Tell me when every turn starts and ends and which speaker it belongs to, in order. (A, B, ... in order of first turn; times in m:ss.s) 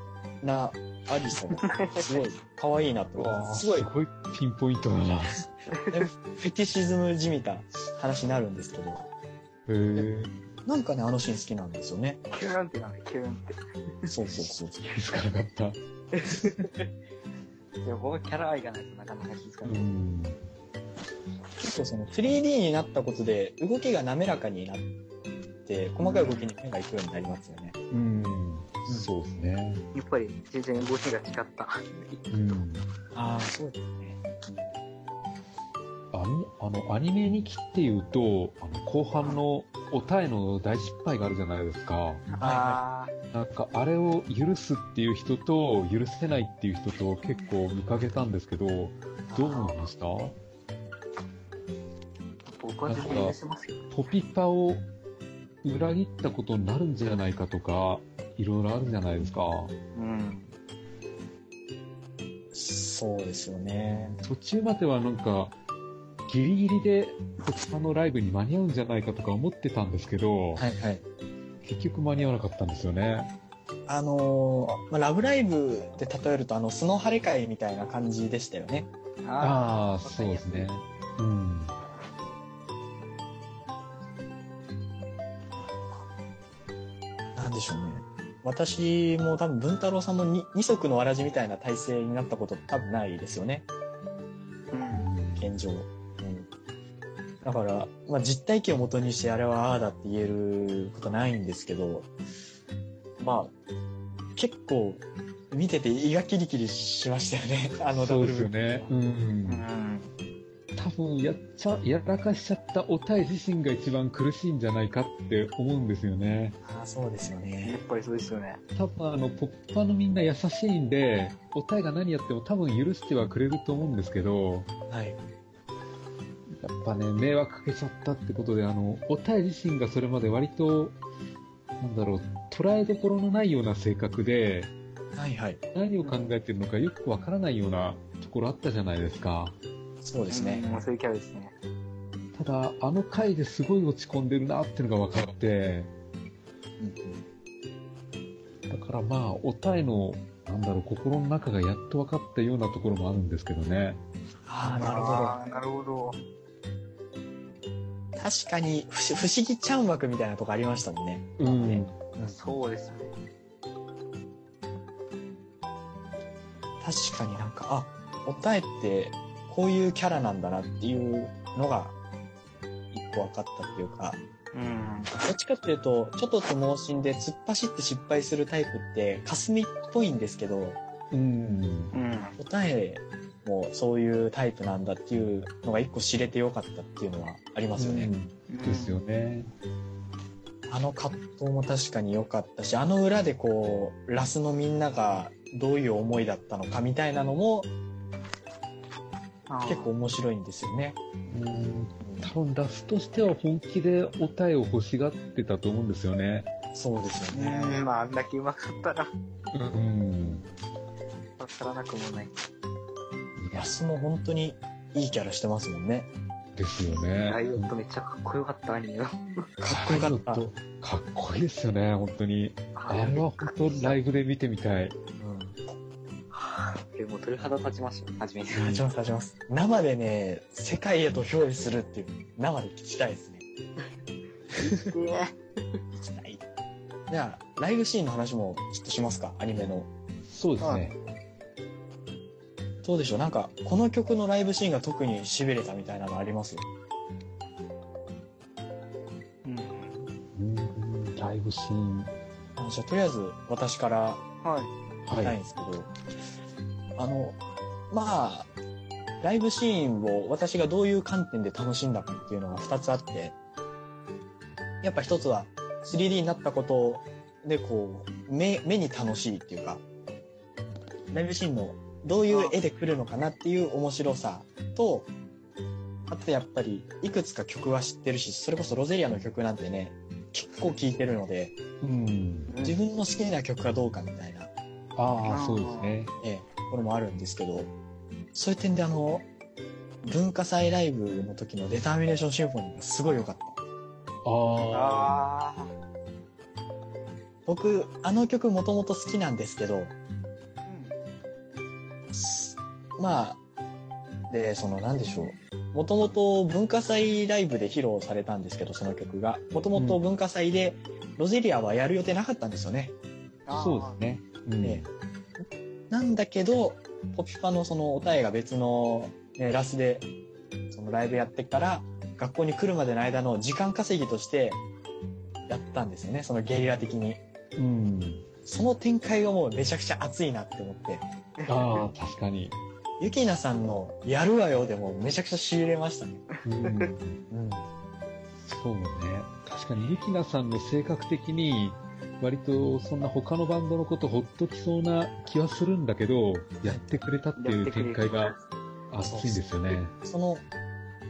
0:00.4-0:03.9 A
0:01.6-0:02.2 B
0:03.2-0:05.4 C
0:05.7-0:06.1 B
0:05.9-0:09.1 A
0:09.7-0:10.3 C
0:10.7-0:12.2 A
0:12.3-0:14.1 B
0:14.1-0:14.8 A
0:14.8-0:15.8 C
0:16.1-0:16.9 B
0:17.8-0:19.8 B
0:19.6-0:20.4 C
0:21.6-0:24.9 A
0:25.6-0:27.8 A
0:26.0-0:26.5 B
0:27.9-0:29.8 C
0:29.9-0:32.2 B
0:32.3-0:32.8 C
0:33.1-0:34.7 A
0:36.1-0:42.2 C
0:42.3-0:43.1 B
0:42.4-0:42.8 A
0:43.3-0:50.4 C
0:49.3-0:49.7 A
0:52.6-0:53.8 B
0:52.9-0:53.4 C
0:53.9-0:54.8 C
0:55.6-0:59.7 C
1:00.0-1:00.5 B
1:02.5-1:04.2 A
1:04.2-1:05.6 C
1:06.3-1:10.6 C
1:10.6-1:11.0 A
1:11.6-1:13.3 C
1:13.9-1:18.9 A
1:19.2-1:20.7 B
1:19.4-1:21.8 C
1:27.4-1:33.7 A
1:34.7-1:35.1 B
1:34.9-1:35.6 C
1:35.4-1:36.5 A
1:37.4-1:42.1 A
1:43.2-1:43.5 A
1:44.4-1:48.9 A
1:47.9-1:49.6 C
1:49.5-1:50.1 B
1:50.8-1:56.6 C
1:56.6-1:57.8 A
1:57.6-1:58.6 B
1:58.8-2:04.7 C
2:04.9-2:05.2 A
2:06.6-2:11.0 C
2:11.8-2:14.7 C
2:15.2-2:15.6 A
2:15.7-2:19.6 C
2:20.0-2:20.7 A
2:20.3-2:21.6 B
2:22.4-2:25.9 C
2:26.8-2:27.2 A
2:28.7-2:34.0 C
2:34.5-2:35.4 A
2:34.7-2:36.2 B
2:38.2-2:42.4 A
2:41.4-2:42.0 C
2:42.2-2:43.1 B
2:46.8-2:51.9 A
2:52.9-2:54.2 A
2:54.5-2:55.2 B
2:55.2-3:00.8 A
3:01.1-3:01.9 C
3:01.9-3:02.4 B
3:02.4-3:08.1 A
3:07.8-3:09.5 C
3:08.5-3:09.0 B
3:10.7-3:17.7 A
3:19.5-3:19.9 B
3:19.6-3:21.0 A
3:21.3-3:26.5 C
3:22.0-3:22.3 A
3:26.7-3:27.8 A
3:27.3-3:29.1 B
3:29.5-3:30.4 C
3:30.2-3:30.6 A
3:31.4-3:32.4 B
3:33.4-3:33.7 C
3:33.5-3:36.1 A
3:36.6-3:37.7 C
3:37.2-3:39.2 B
3:39.6-3:40.4 A
3:39.7-3:45.0 C
3:42.8-3:44.0 B
3:45.2-3:45.6 A
3:46.3-3:48.8 B
3:48.6-3:48.8 C
3:48.6-3:53.4 A
3:54.6-3:55.4 B
3:54.6-3:54.9 A
3:56.0-3:56.4 A
3:57.1-3:59.9 A
4:00.3-4:00.9 C
4:02.8-4:06.6 A
4:09.4-4:10.1 B
4:10.4-4:12.1 C
4:12.6-4:14.2 A
4:14.4-4:14.7 B
4:15.1-4:15.4 C
4:15.2-4:15.9 A
4:17.0-4:17.4 A
4:17.9-4:18.5 A
4:19.2-4:23.3 A
4:24.8-4:29.8 A
4:31.1-4:35.1 A
4:32.3-4:32.6 B
4:36.1-4:41.6 A
4:41.8-4:42.5 C
4:42.5-4:42.8 B
4:42.6-4:44.5 A
4:45.0-4:46.1 C
4:45.3-4:45.9 B
4:46.2-4:47.7 A
4:48.3-4:49.3 A
4:50.0-4:53.6 A
4:54.2-4:55.2 C
4:54.7-4:55.7 B
4:57.5-4:59.9 A
5:00.6-5:00.9 B
5:02.1-5:03.4 A
5:04.3-5:12.9 A
5:09.8-5:10.0 C
5:13.5-5:14.0 B
5:13.5-5:14.9 C
5:15.4-5:20.1 A
5:20.7-5:24.6 A
5:25.5-5:27.2 A
5:27.6-5:28.2 C
5:28.4-5:31.0 A
5:31.4-5:31.8 B
5:31.5-5:32.6 C
5:33.0-5:36.2 A
5:36.4-5:37.2 C
5:36.6-5:36.9 B
5:37.3-5:37.7 A
5:38.4-5:48.4 C
5:47.4-5:48.4 B
5:48.9-5:49.9 C
5:49.0-5:50.4 A